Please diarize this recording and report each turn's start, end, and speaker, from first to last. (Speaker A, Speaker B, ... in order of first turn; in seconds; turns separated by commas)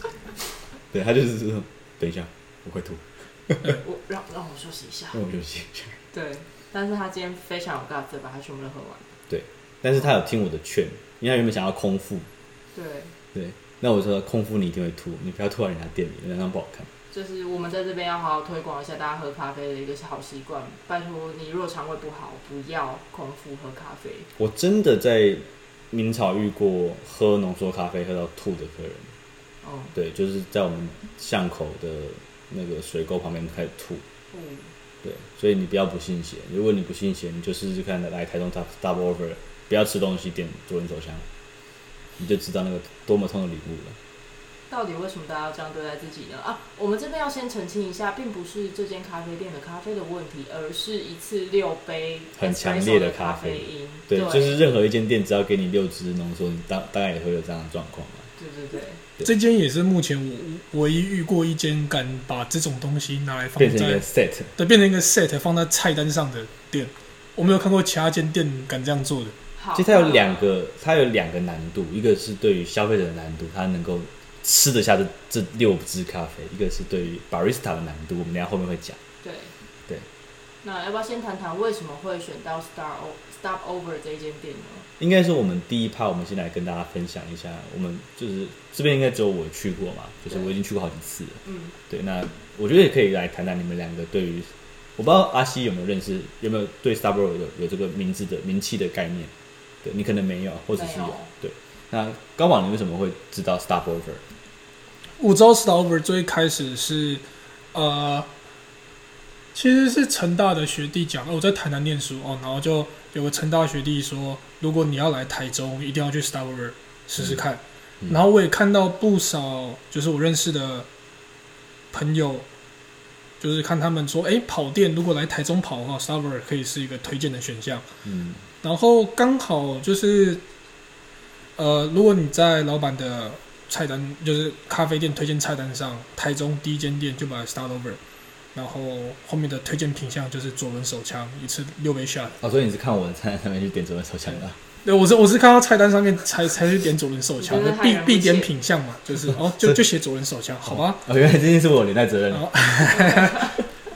Speaker A: 0.9-3.8, Speaker B: 3.7-5.2, Speaker A: 5.1-6.0, Speaker B: 6.1-9.1, Speaker A: 9.3-12.3, Speaker B: 12.7-13.1, Speaker A: 13.3-16.9, Speaker B: 17.1-24.3, Speaker A: 24.4-29.1, Speaker B: 29.6-29.9, Speaker A: 29.9-34.0, Speaker B: 34.3-34.7, Speaker A: 35.0-41.2, Speaker A: 42.2-44.0, Speaker B: 44.7-54.6, Speaker A: 52.4-58.3, Speaker B: 58.4-59.0, Speaker C: 59.2-64.0, Speaker A: 63.5-64.6, Speaker C: 64.5-69.3, Speaker B: 69.5-70.5, Speaker A: 69.7-79.0, Speaker B: 79.2-79.5, Speaker B: 80.6-84.9, Speaker A: 85.0-99.3, Speaker B: 91.4-91.8, Speaker A: 99.8-104.2, Speaker B: 100.7-101.3, Speaker C: 105.2-108.3, Speaker C: 109.5-120.9, Speaker A: 117.2-117.4, Speaker C: 121.9-122.5, Speaker C: 123.4-127.8, Speaker A: 128.0-128.5, Speaker C: 128.6-130.4, Speaker C: 131.6-138.0, Speaker C: 138.5-142.4, Speaker A: 142.4-144.6, Speaker C: 144.8-151.0, Speaker B: 147.4-148.5, Speaker A: 149.3-149.8, Speaker A: 150.6-153.1, Speaker C: 152.3-153.5